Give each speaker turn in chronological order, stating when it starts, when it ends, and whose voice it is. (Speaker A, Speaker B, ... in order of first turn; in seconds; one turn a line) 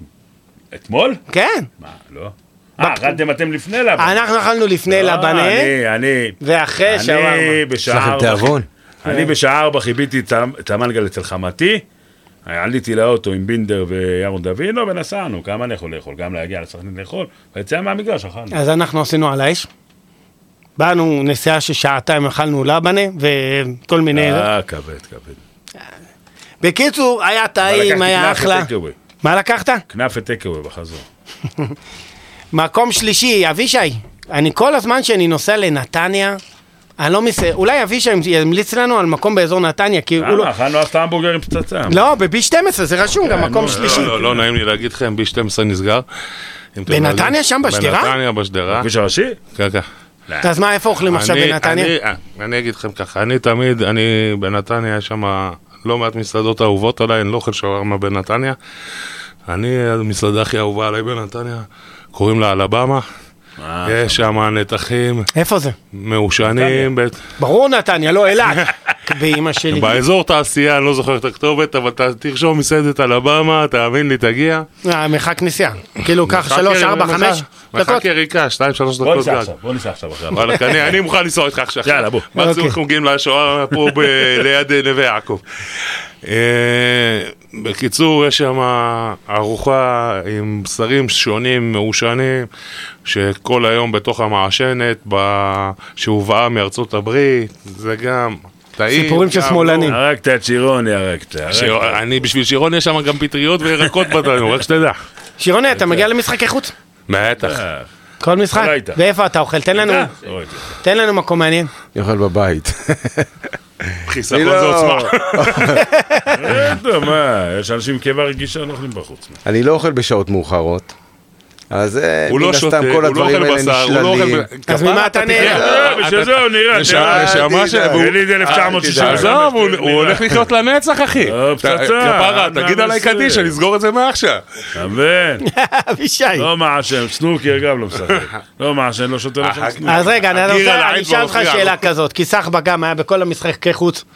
Speaker A: 0.7-1.2
Speaker B: 1.3-1.7
Speaker A: 1.8-4.2
Speaker B: 2.8-3.2
Speaker B: 4.0-5.7
Speaker A: 4.9-11.8
Speaker B: 6.4-7.6
Speaker C: 7.9-8.7
Speaker A: 12.5-18.6
Speaker B: 18.5-19.7
Speaker B: 20.8-24.5
Speaker A: 24.1-25.4
Speaker B: 26.6-28.7
Speaker A: 27.6-29.0
Speaker B: 29.2-29.9
Speaker A: 29.9-31.0
Speaker B: 32.5-36.4
Speaker B: 37.0-40.5
Speaker A: 40.2-42.0
Speaker B: 41.9-44.3
Speaker A: 43.2-44.3
Speaker D: 43.4-46.1
Speaker D: 46.8-48.9
Speaker B: 46.9-48.2
Speaker A: 48.7-49.4
Speaker D: 49.5-49.9
Speaker B: 50.4-51.9
Speaker D: 51.0-58.6
Speaker D: 59.5-63.1
Speaker A: 63.6-64.3
Speaker D: 63.9-65.3
Speaker B: 65.3-65.8
Speaker D: 65.9-67.2
Speaker A: 66.4-66.9
Speaker B: 67.4-70.0
Speaker D: 69.7-74.7
Speaker B: 74.8-78.0
Speaker D: 76.2-79.5
Speaker A: 79.0-80.9
Speaker D: 80.3-85.4
Speaker A: 81.8-82.3
Speaker B: 82.4-82.8
Speaker D: 86.2-92.5
Speaker D: 93.0-99.7
Speaker B: 98.9-100.0
Speaker A: 99.6-102.0
Speaker D: 101.5-105.0
Speaker B: 105.4-106.7
Speaker D: 107.1-107.6
Speaker A: 107.4-107.9
Speaker B: 108.2-110.1
Speaker A: 108.5-109.0
Speaker A: 109.7-110.7
Speaker B: 110.8-111.7
Speaker C: 111.9-113.3
Speaker D: 114.0-115.7
Speaker C: 114.3-115.8
Speaker B: 115.8-116.4
Speaker A: 116.4-119.4
Speaker C: 119.4-120.9
Speaker C: 121.7-125.8
Speaker D: 122.3-134.4
Speaker B: 124.7-125.7
Speaker A: 125.3-130.4
Speaker C: 126.8-129.3
Speaker A: 131.2-133.6
Speaker A: 134.8-135.4
Speaker B: 135.4-136.5
Speaker A: 136.4-140.1
Speaker D: 139.4-141.9
Speaker B: 139.8-144.0